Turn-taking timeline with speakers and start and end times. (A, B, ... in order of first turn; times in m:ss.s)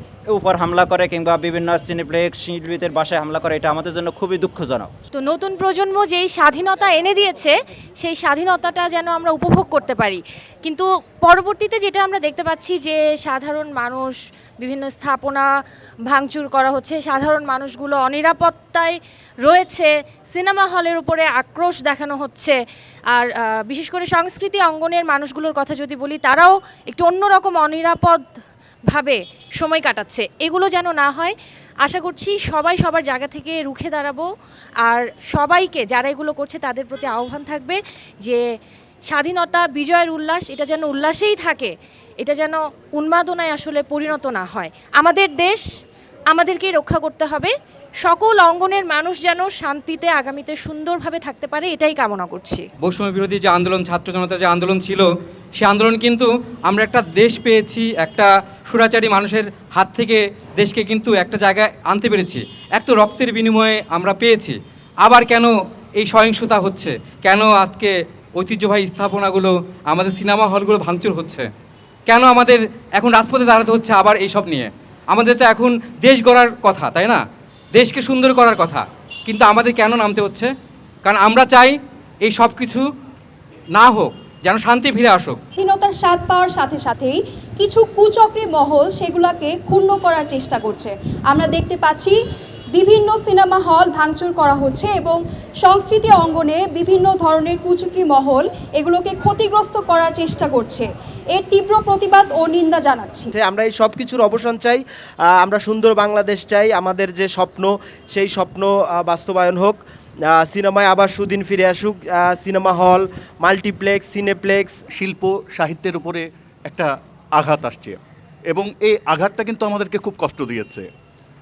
0:00.3-0:04.9 A
0:05.2-0:15.5 B
0:16.1-0:22.6 B
0:23.1-0:28.2 B
0:28.9-0:34.2 B
0:34.8-0:38.4 B
0:39.1-0:45.6 B
0:46.3-0:52.7 B
0:52.8-0:55.0 C
0:55.6-1:11.5 C
1:12.1-1:17.2 C
1:17.7-1:20.5 C
1:21.0-1:22.8 C
1:23.7-1:25.4 C
1:25.6-1:32.2 D
1:32.7-1:43.3 D
1:43.3-1:54.8 E
1:54.9-1:58.0 F
1:58.5-2:00.9 F